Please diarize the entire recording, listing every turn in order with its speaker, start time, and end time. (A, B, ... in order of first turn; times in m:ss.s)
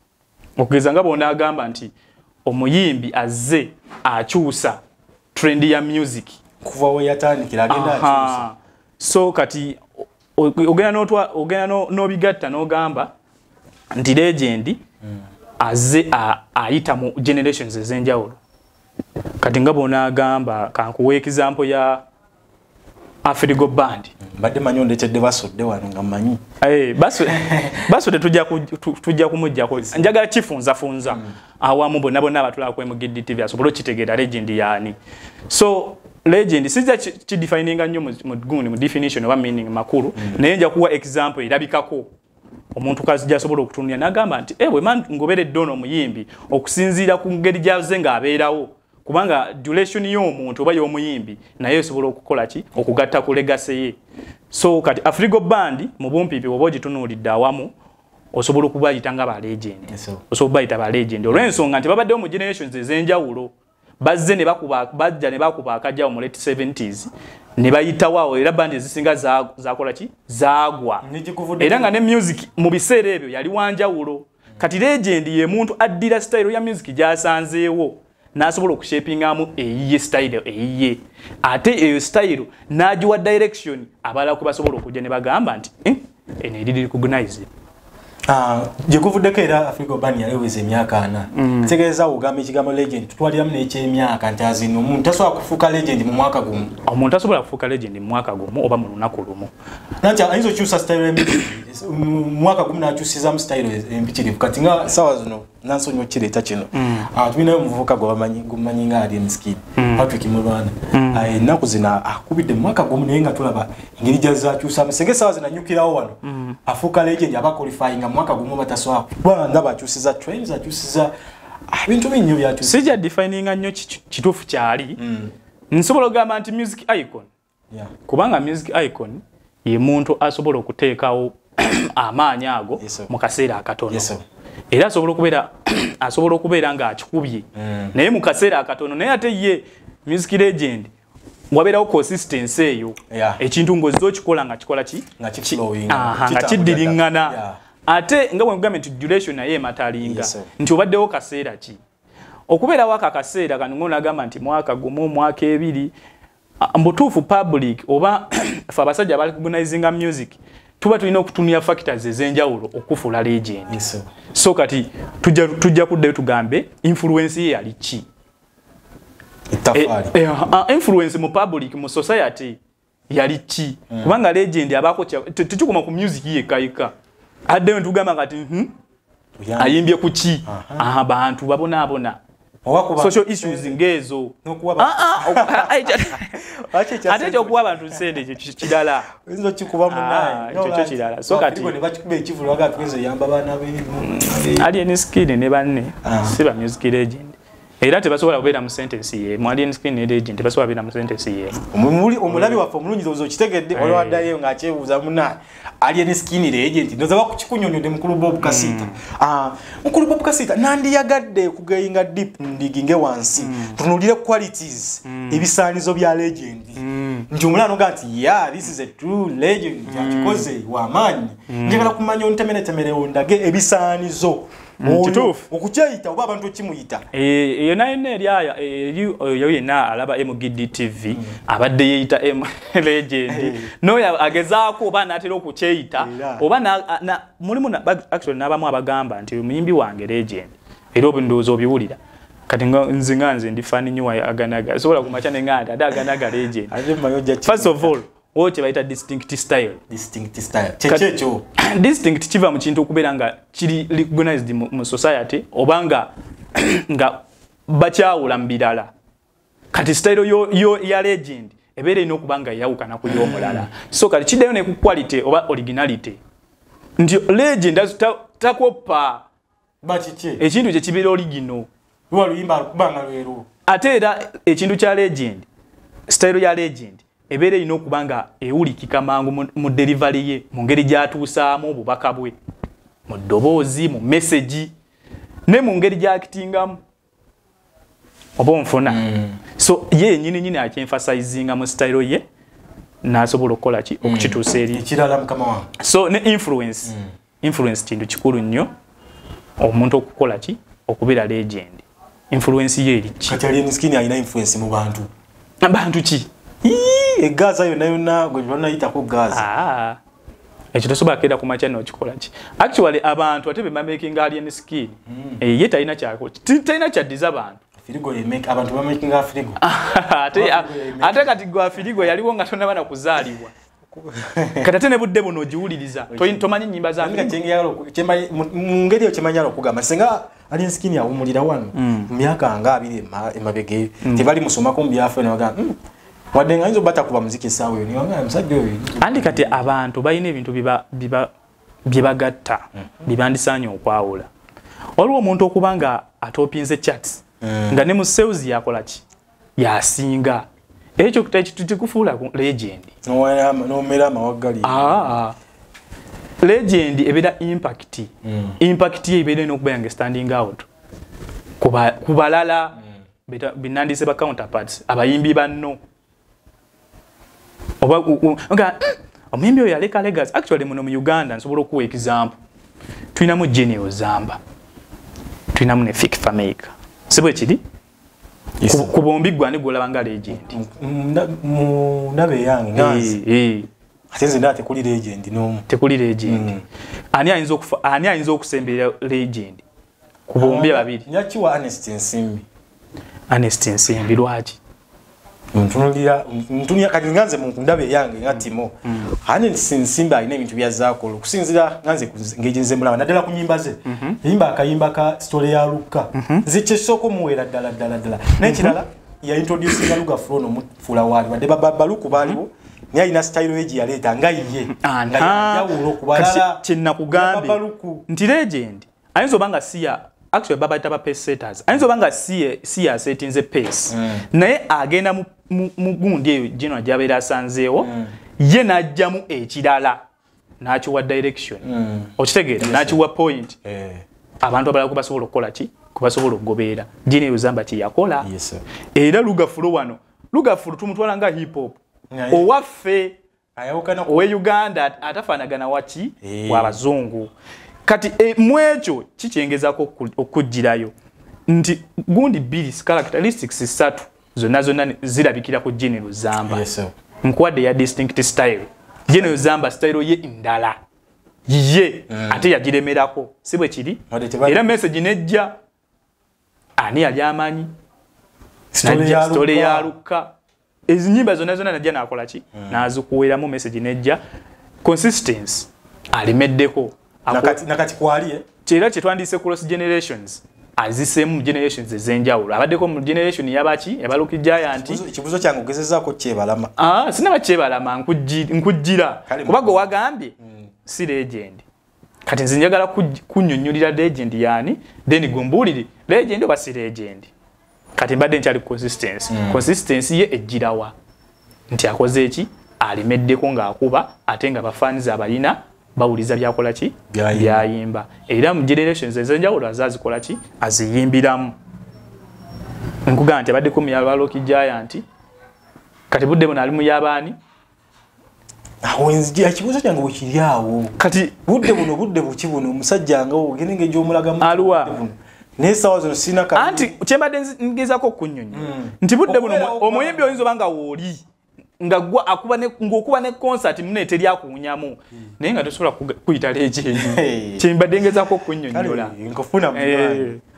0:00.6-0:01.9 A
0:02.4-0:04.8 A
0:05.3-0:06.4 A
0:06.6-0:08.4 B
0:07.7-0:13.1 A
0:13.9-0:14.8 A
0:15.6-0:18.4 A
0:19.4-0:22.0 A
0:23.2-0:24.1 A
0:24.3-0:26.4 B
0:26.6-0:35.0 A
0:27.3-0:27.8 B
0:35.5-0:42.1 A
0:42.7-0:54.0 A
0:54.5-0:57.7 A
0:58.3-1:11.0 A
0:59.9-1:00.2 B
1:01.3-1:01.6 B
1:11.0-1:12.0 B
1:11.6-1:27.5 A
1:28.3-1:36.7 B
1:31.3-1:31.7 A
1:36.8-1:39.5 A
1:40.0-2:01.1 B
1:46.7-1:47.1 A
1:49.8-1:50.1 A
1:50.9-1:51.3 A
1:56.2-1:56.6 A
2:01.7-2:03.0 B
2:02.6-2:05.0 A
2:05.0-2:05.3 B
2:05.7-2:07.3 A
2:08.0-2:14.1 A
2:12.8-2:13.1 B
2:13.9-2:14.2 B
2:14.7-2:20.9 A
2:17.6-2:17.9 B
2:21.5-2:31.8 A
2:23.1-2:23.4 B
2:25.2-2:27.6 B
2:30.0-2:30.5 B
2:32.5-2:35.9 A
2:36.6-2:43.8 A
2:43.7-2:44.0 B
2:44.3-2:48.0 A
2:49.5-2:50.1 B
2:49.7-2:52.6 A
2:53.1-2:56.9 A
2:57.5-2:58.7 A
2:59.4-2:59.8 B
2:59.6-3:02.2 A
3:00.4-3:00.9 B
3:02.6-3:03.8 B
3:03.0-3:06.4 A
3:04.4-3:08.0 B
3:07.0-3:09.1 A
3:08.6-3:14.7 B
3:09.9-3:11.8 A
3:14.0-3:21.6 A
3:16.0-3:16.4 B
3:21.6-3:47.0 B
3:22.3-3:22.6 A
3:23.7-3:24.2 A
3:28.4-3:29.0 A
3:33.4-3:33.8 A
3:35.1-3:35.4 A
3:36.8-3:37.3 A
3:39.9-3:40.5 A
3:41.5-3:41.9 A
3:44.8-3:45.4 A
3:47.1-4:02.0 A
3:53.3-3:53.7 B
3:56.0-3:56.4 B
4:02.5-4:06.7 A
4:06.7-4:07.9 B
4:07.4-4:09.8 A
4:09.9-4:11.4 B
4:10.9-4:18.9 A
4:19.7-4:26.2 A
4:23.0-4:23.7 B
4:27.0-4:29.2 A
4:29.8-4:30.4 B
4:30.4-4:31.7 A
4:32.1-4:33.5 B
4:33.6-4:35.5 A
4:36.1-4:42.3 A
4:43.1-4:44.7 A
4:45.5-4:46.8 A
4:48.4-4:49.0 A
4:48.9-4:49.4 B
4:49.5-4:52.2 A
4:53.0-4:54.8 A
4:54.0-4:55.7 B
4:55.8-4:58.7 A
4:59.6-5:03.4 A
5:03.3-5:05.1 B
5:05.6-5:06.3 A
5:06.6-5:09.5 B
5:09.3-5:10.0 A
5:10.7-5:17.6 A
5:15.1-5:15.4 B
5:17.8-5:19.6 B
5:19.6-5:23.5 A
5:20.3-5:21.4 B
5:23.9-5:24.7 B
5:24.6-5:27.4 A
5:26.1-5:26.4 B
5:27.0-5:35.8 B
5:31.7-5:32.1 A
5:34.0-5:34.3 A
5:36.3-5:39.6 B
5:39.0-5:41.3 A
5:41.8-5:44.3 A
5:45.0-5:49.0 A
5:47.4-5:47.8 B
5:49.6-5:52.9 A
5:53.0-5:55.1 B
5:54.6-5:55.4 A
5:56.4-6:00.7 A
5:58.2-5:58.6 B
6:01.6-6:05.8 A
6:07.8-6:12.4 A
6:13.1-6:14.4 A
6:15.5-6:17.6 A
6:18.6-6:18.9 B
6:18.7-6:20.6 A
6:20.3-6:23.1 B
6:22.8-6:23.7 A
6:24.1-6:25.6 B
6:25.7-6:26.5 A
6:26.2-6:26.6 B
6:27.1-6:29.6 A
6:30.3-6:31.0 A
6:30.4-6:32.4 B
6:33.3-6:34.6 A
6:35.5-6:58.0 B
6:38.8-6:39.1 A
6:43.8-6:44.2 A
6:46.1-6:46.4 A
6:48.4-6:48.8 A
6:54.7-7:10.0 A
7:03.9-7:04.2 B
7:07.8-7:08.1 B
7:10.6-7:11.6 A
7:11.6-7:13.0 B
7:12.2-7:13.6 A
7:13.6-7:14.0 B
7:14.4-7:18.3 A
7:18.2-7:18.6 B
7:18.9-7:21.8 A
7:22.1-7:22.5 B
7:22.3-7:23.2 A
7:23.6-7:24.3 B
7:24.0-7:27.3 A
7:26.2-7:26.8 B
7:27.8-7:30.9 A
7:31.5-7:36.6 A
7:36.4-7:36.9 B
7:37.2-7:40.8 A
7:39.1-7:39.4 B
7:41.5-7:45.5 A
7:42.1-7:42.5 B
7:44.1-7:44.7 B
7:46.8-7:47.7 A
7:48.7-7:49.9 B
7:48.8-7:50.3 A
7:50.9-7:54.2 A
7:52.6-7:52.8 B
7:54.8-7:57.6 A
7:57.3-7:58.4 B
7:58.6-8:05.0 A
8:04.6-8:06.7 B
8:06.8-8:11.6 A
8:09.3-8:09.9 B
8:12.2-8:17.3 A
8:18.0-8:20.9 A
8:19.3-8:19.6 B
8:21.7-8:31.5 A
8:27.1-8:27.6 B
8:33.0-8:35.0 A
8:36.1-8:37.4 A
8:38.8-8:46.9 B
8:41.0-8:41.4 A
8:44.4-8:45.0 A
8:46.5-8:51.2 A
8:48.5-8:50.4 B
8:51.8-8:59.1 A
8:56.9-8:57.7 B
8:58.7-9:00.3 B
8:59.7-9:00.4 A